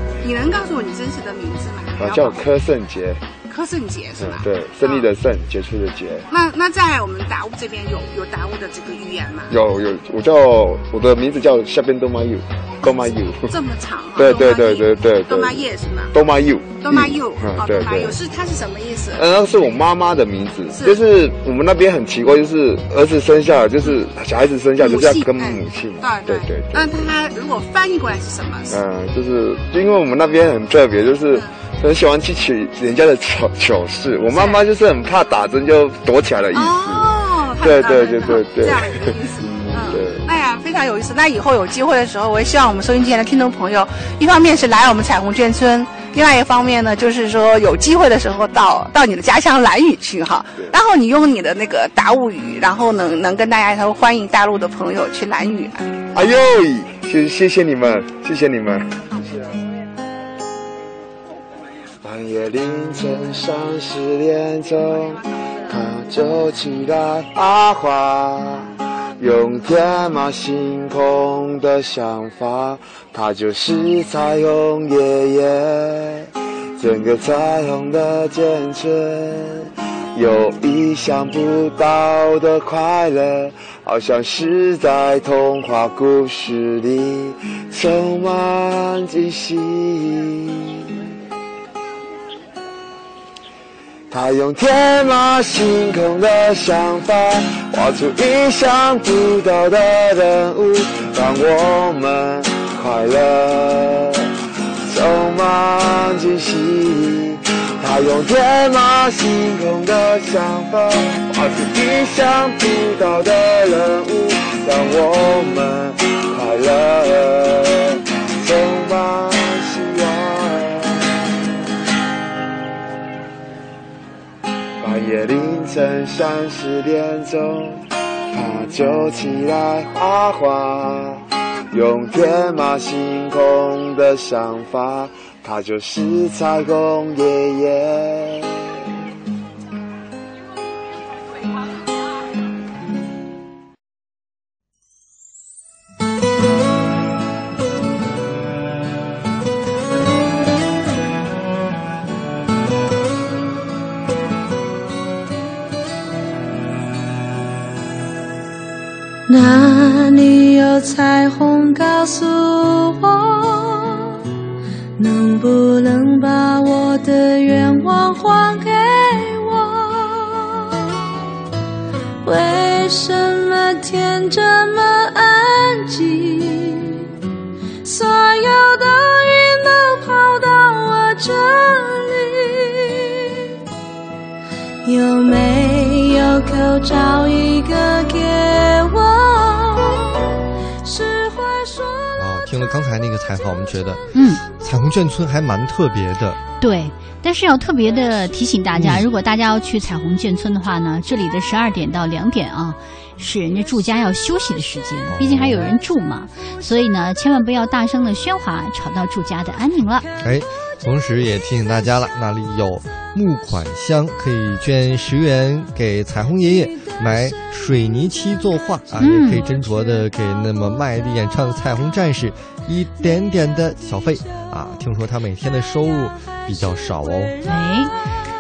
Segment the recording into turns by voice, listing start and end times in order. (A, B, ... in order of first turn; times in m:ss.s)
0:00.2-0:02.4 A
0:02.0-0:03.2 B
0:03.5-0:05.1 A
0:04.2-0:06.3 B
0:06.3-0:09.5 A
0:09.5-0:13.5 B
0:12.8-0:16.1 A
0:14.2-0:18.2 B
0:16.8-0:19.2 A
0:19.2-0:27.1 B
0:20.7-0:21.0 A
0:24.8-0:28.8 A
0:28.7-0:40.3 B
0:34.3-0:34.6 A
0:36.5-0:55.9 A
0:56.1-0:59.0 B
1:02.0-1:31.0 B
1:34.1-1:44.3 B
1:44.8-2:01.4 B
2:04.8-2:18.8 B
2:39.3-2:44.3 C
2:45.0-2:50.8 C
2:52.2-2:57.1 C
2:57.8-3:03.3 C
3:04.8-3:10.2 C
3:10.8-3:12.1 C
3:12.2-3:16.4 D
3:14.1-3:14.4 E
3:16.6-3:30.1 E
3:18.7-3:19.1 D
3:25.1-3:25.8 D
3:30.2-3:47.4 D
3:39.0-3:39.5 E
3:47.4-3:47.9 E